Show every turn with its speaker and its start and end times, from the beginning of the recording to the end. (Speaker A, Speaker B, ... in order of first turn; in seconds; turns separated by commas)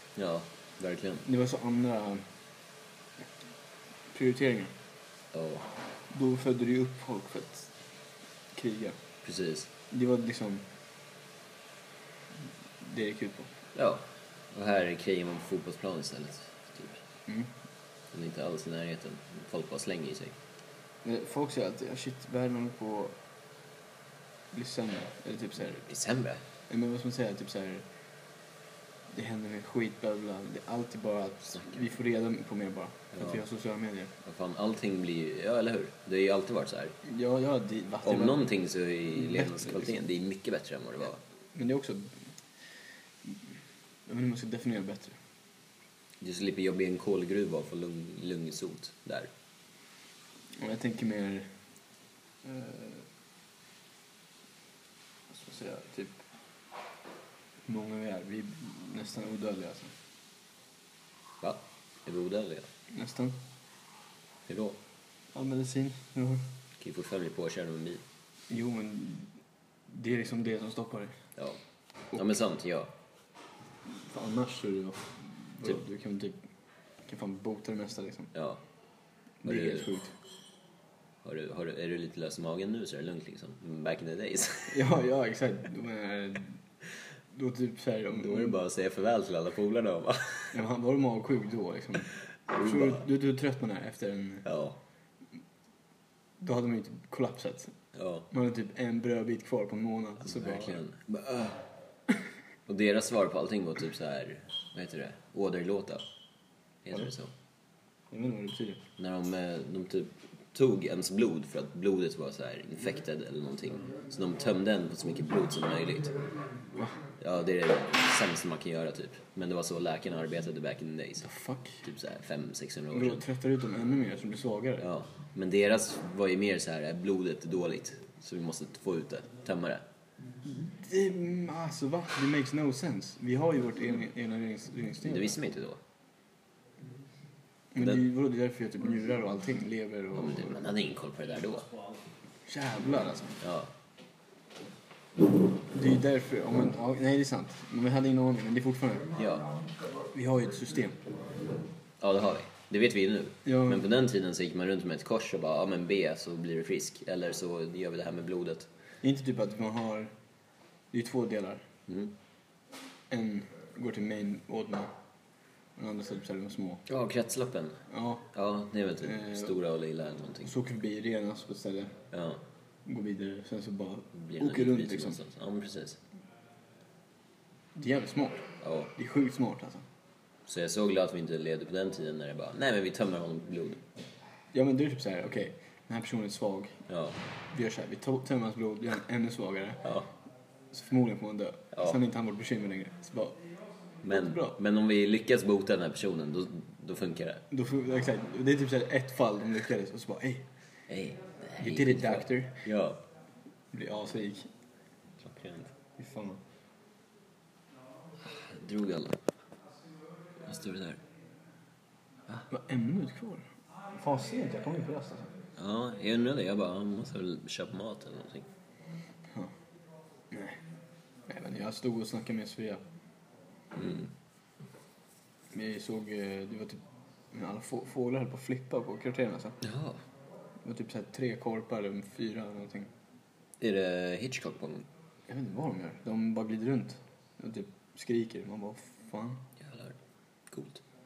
Speaker A: 0.1-1.2, Speaker B: 1.2-2.3, Speaker B: 4.1-4.7, Speaker A: 5.3-5.7, Speaker B: 6.1-7.7, Speaker B: 8.5-9.0, Speaker A: 9.2-9.7, Speaker B: 9.9-10.6, Speaker B: 12.8-13.5, Speaker A: 13.7-17.0, Speaker A: 18.1-20.4, Speaker B: 21.0-23.2, Speaker B: 24.5-25.9, Speaker A: 25.8-26.4, Speaker B: 26.7-27.8, Speaker B: 29.1-34.1, Speaker A: 33.1-33.4, Speaker A: 34.2-37.0, Speaker B: 37.0-38.5, Speaker A: 38.0-41.2, Speaker B: 39.2-40.0, Speaker B: 41.5-42.2, Speaker B: 44.0-45.2, Speaker A: 46.2-49.3, Speaker B: 50.5-51.5, Speaker B: 52.4-53.0, Speaker B: 55.3-56.2, Speaker B: 57.6-59.9, Speaker A: 61.4-62.7, Speaker B: 62.9-63.4, Speaker A: 64.5-64.8, Speaker B: 65.3-66.4, Speaker A: 66.8-68.0, Speaker B: 68.5-69.3, Speaker B: 69.9-71.2, Speaker A: 72.1-72.9, Speaker B: 73.9-76.4, Speaker B: 77.0-78.3, Speaker A: 78.3-78.6, Speaker B: 79.4-80.1, Speaker A: 79.4-79.9, Speaker A: 81.2-84.8, Speaker B: 84.7-86.6, Speaker B: 87.3-88.6, Speaker A: 88.1-90.5, Speaker B: 90.5-94.5, Speaker A: 92.5-93.0, Speaker A: 94.4-94.8, Speaker B: 96.4-97.7, Speaker A: 97.9-98.3, Speaker B: 98.3-100.8, Speaker A: 100.2-101.6, Speaker A: 102.7-106.0, Speaker A: 106.8-107.3, Speaker B: 108.1-108.8, Speaker A: 109.0-116.2, Speaker A: 117.2-121.3, Speaker B: 121.2-121.8, Speaker A: 121.8-123.2, Speaker B: 122.9-124.9, Speaker A: 124.8-129.8, Speaker B: 130.5-135.3, Speaker A: 135.0-135.8, Speaker B: 137.7-140.6, Speaker A: 140.1-141.7, Speaker B: 142.4-143.4, Speaker A: 143.4-143.7, Speaker B: 145.7-149.1, Speaker A: 149.1-149.5, Speaker B: 150.1-151.0, Speaker A: 152.0-158.7, Speaker B: 153.4-153.8, Speaker B: 159.0-160.1, Speaker B: 160.9-161.6, Speaker A: 161.9-162.1, Speaker B: 163.1-164.9, Speaker B: 165.8-166.8, Speaker A: 166.9-170.5, Speaker B: 167.9-168.2, Speaker B: 169.0-169.6, Speaker B: 170.4-172.0, Speaker A: 172.1-172.4, Speaker B: 172.8-175.2, Speaker A: 174.1-176.0, Speaker B: 177.7-179.8, Speaker A: 178.6-178.9, Speaker A: 180.5-183.8, Speaker B: 184.5-186.8, Speaker A: 186.9-187.2, Speaker B: 187.5-189.9, Speaker A: 189.8-190.1, Speaker B: 190.7-193.4, Speaker A: 194.0-197.4, Speaker B: 194.1-194.6, Speaker B: 197.5-200.4, Speaker A: 200.9-203.0, Speaker B: 201.6-202.7, Speaker B: 203.7-204.5, Speaker A: 205.2-205.7, Speaker B: 206.0-206.4, Speaker A: 208.2-209.2, Speaker A: 210.4-211.0, Speaker B: 212.5-215.3, Speaker A: 215.6-218.5, Speaker B: 220.3-220.6, Speaker B: 221.3-222.8, Speaker A: 223.7-224.1, Speaker B: 225.5-229.6, Speaker A: 229.6-230.0, Speaker B: 230.6-232.9, Speaker A: 233.6-234.9, Speaker B: 235.3-239.4, Speaker A: 239.6-239.9, Speaker A: 240.5-240.8